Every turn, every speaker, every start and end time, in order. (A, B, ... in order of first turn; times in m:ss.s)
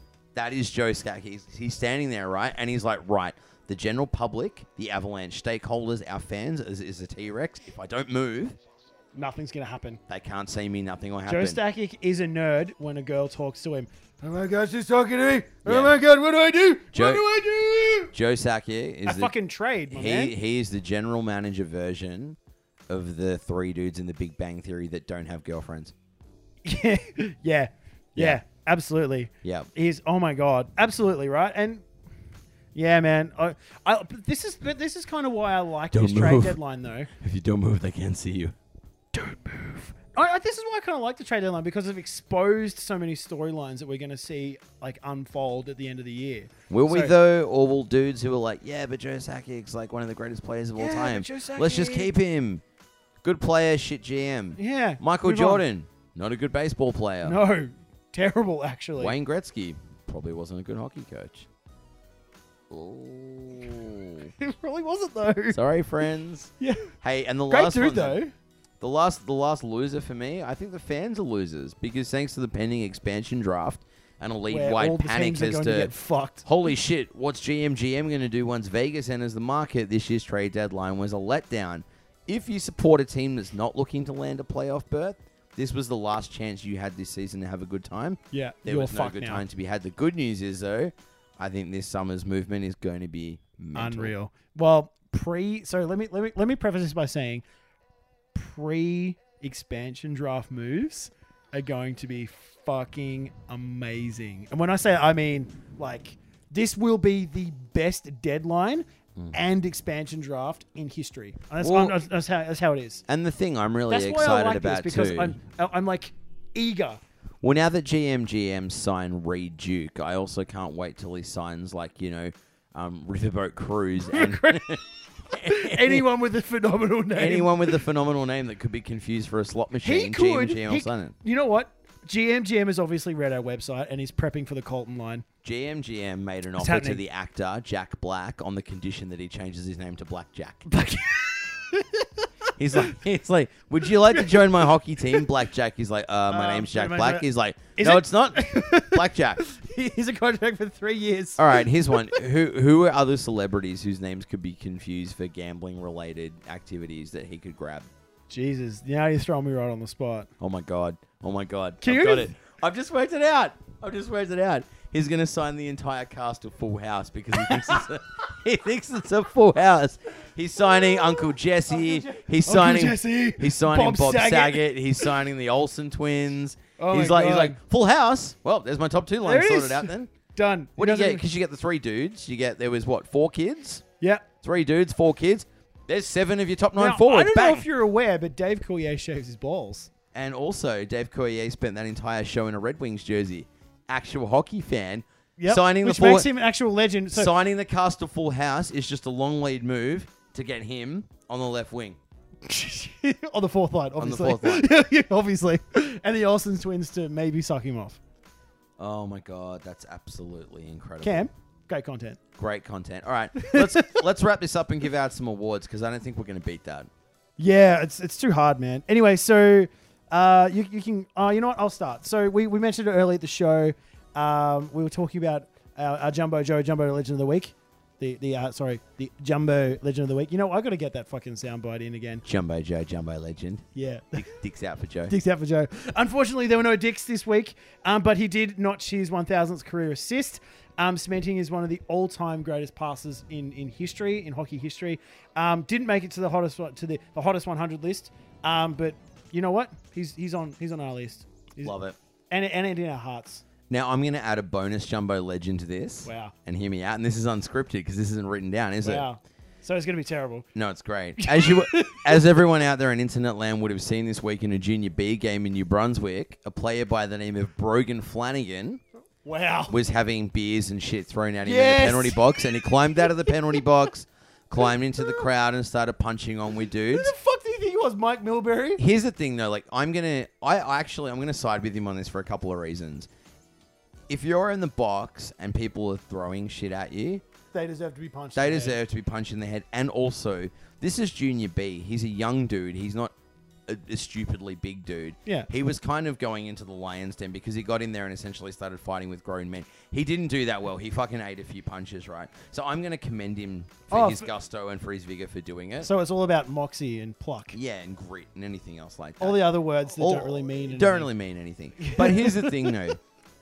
0:00.4-0:08.6 A
0:09.1-0:10.0 B
0:10.1-0:11.6 A
0:11.3-0:18.1 B
0:15.6-0:16.0 A
0:16.9-0:17.3 A
0:18.1-0:19.3 A
0:19.1-0:20.3 B
0:19.9-0:22.4 A
0:22.9-0:25.9 A
0:26.6-0:31.8 B
0:28.2-0:28.4 A
0:29.4-0:29.7 A
0:32.8-0:37.1 B
0:35.9-0:36.6 A
0:37.2-0:38.6 A
0:39.1-0:40.0 A
0:40.1-0:47.1 B
0:46.7-0:52.6 A
0:50.8-0:52.1 B
0:53.2-0:57.4 A
0:54.6-0:55.6 B
0:57.2-0:59.2 B
0:59.0-1:01.5 A
1:02.7-1:04.3 A
1:04.4-1:05.6 B
1:05.5-1:08.2 A
1:06.6-1:06.9 B
1:07.5-1:08.3 B
1:08.8-1:15.9 A
1:14.5-1:16.5 B
1:16.4-1:34.1 A
1:28.3-1:29.4 B
1:33.8-1:37.4 B
1:38.3-1:53.0 B
1:51.6-1:52.1 A
1:53.1-1:55.4 A
1:53.9-1:57.0 B
1:57.4-2:06.0 A
2:04.1-2:04.8 B
2:05.3-2:07.8 B
2:07.2-2:11.2 A
2:09.8-2:15.3 B
2:15.4-2:20.7 A
2:16.6-2:17.0 B
2:20.7-2:23.0 B
2:22.6-2:29.4 A
2:24.1-2:25.2 B
2:26.3-2:27.2 B
2:27.8-2:32.2 B
2:31.4-2:37.9 A
2:38.3-2:40.3 B
2:40.4-3:00.1 A
2:41.8-2:42.3 B
2:47.4-2:47.8 B
2:50.7-2:55.1 B
2:56.8-2:57.6 B
2:59.2-3:01.2 B
3:00.8-3:03.8 A
3:04.0-3:04.3 B
3:04.4-3:07.6 A
3:06.8-3:09.9 B
3:10.1-3:16.3 A
3:15.4-3:17.3 B
3:17.1-3:22.0 A
3:22.4-3:28.0 B
3:24.0-3:24.7 A
3:28.8-3:31.3 A
3:31.0-3:32.2 B
3:32.4-3:36.9 A
3:33.4-3:34.0 B
3:37.4-3:52.2 B
3:52.2-3:53.6 A
3:53.8-3:54.3 B
3:54.2-3:55.1 A
3:55.1-4:11.7 B
4:11.6-4:12.0 A
4:12.3-4:13.4 B
4:13.7-4:19.1 A
4:16.0-4:16.3 B
4:18.8-4:20.5 B
4:20.6-4:28.8 A
4:21.2-4:22.2 B
4:29.2-4:29.8 B
4:29.7-4:37.1 A
4:31.4-4:33.3 B
4:35.0-4:35.3 B
4:36.9-4:38.8 B
4:38.8-4:43.1 A
4:44.1-4:47.2 A
4:47.5-4:48.8 B
4:48.4-4:53.1 A
4:53.7-5:05.9 A
5:03.9-5:04.3 B
5:05.8-5:07.6 B
5:07.5-5:13.0 A
5:09.2-5:11.1 B
5:11.8-5:12.8 B